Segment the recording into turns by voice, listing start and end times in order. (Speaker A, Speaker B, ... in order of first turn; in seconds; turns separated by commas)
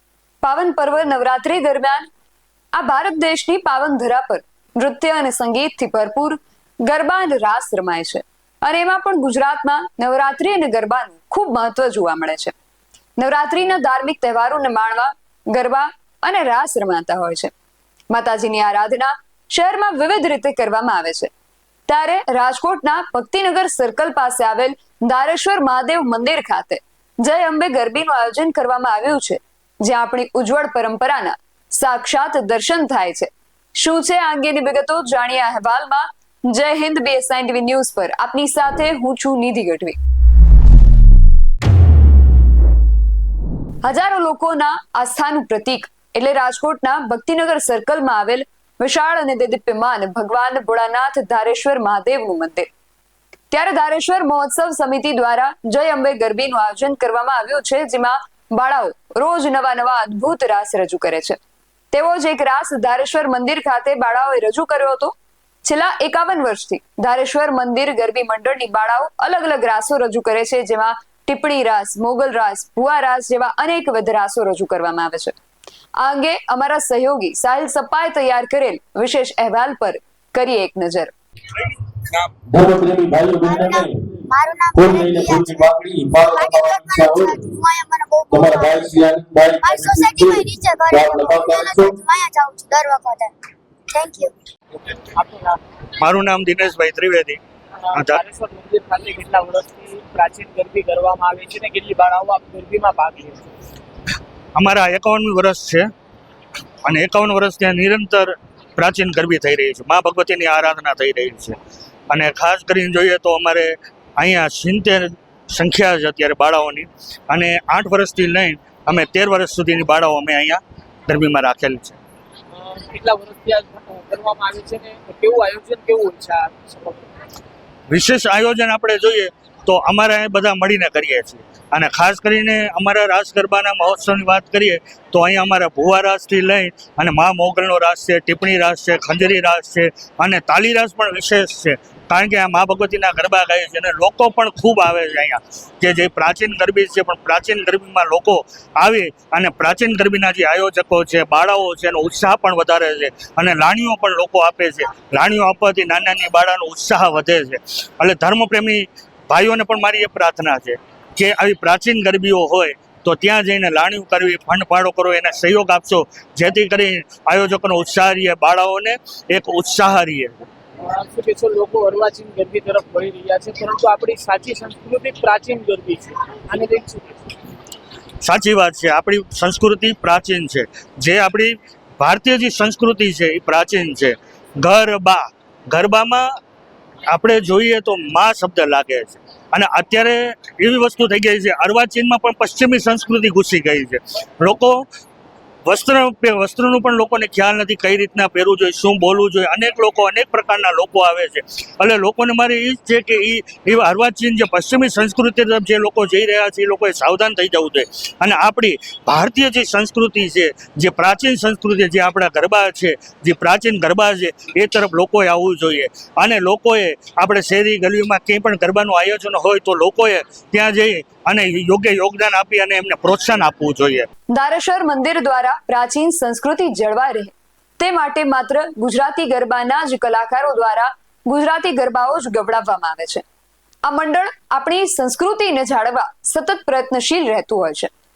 Speaker A: 0.4-2.1, Speaker A: 2.7-12.5, Speaker A: 13.2-17.5, Speaker A: 18.1-21.3, Speaker A: 21.9-40.0, Speaker A: 43.8-52.7, Speaker A: 53.5-61.4, Speaker A: 61.9-75.3, Speaker A: 76.0-81.1, Speaker B: 82.3-84.0, Speaker C: 83.4-85.7, Speaker B: 84.7-87.5, Speaker C: 86.3-89.0, Speaker B: 88.3-92.0, Speaker C: 89.6-93.3, Speaker C: 93.9-94.3, Speaker D: 95.1-95.6, Speaker E: 96.0-97.4, Speaker E: 97.9-98.2, Speaker D: 98.0-103.5, Speaker E: 104.5-105.8, Speaker E: 106.8-111.6, Speaker E: 112.1-122.0, Speaker D: 122.5-127.1, Speaker E: 127.9-170.3, Speaker D: 170.9-177.3, Speaker E: 178.2-186.3, Speaker E: 187.1-194.8, Speaker E: 195.6-224.1, Speaker A: 224.3-233.2, Speaker A: 233.8-237.9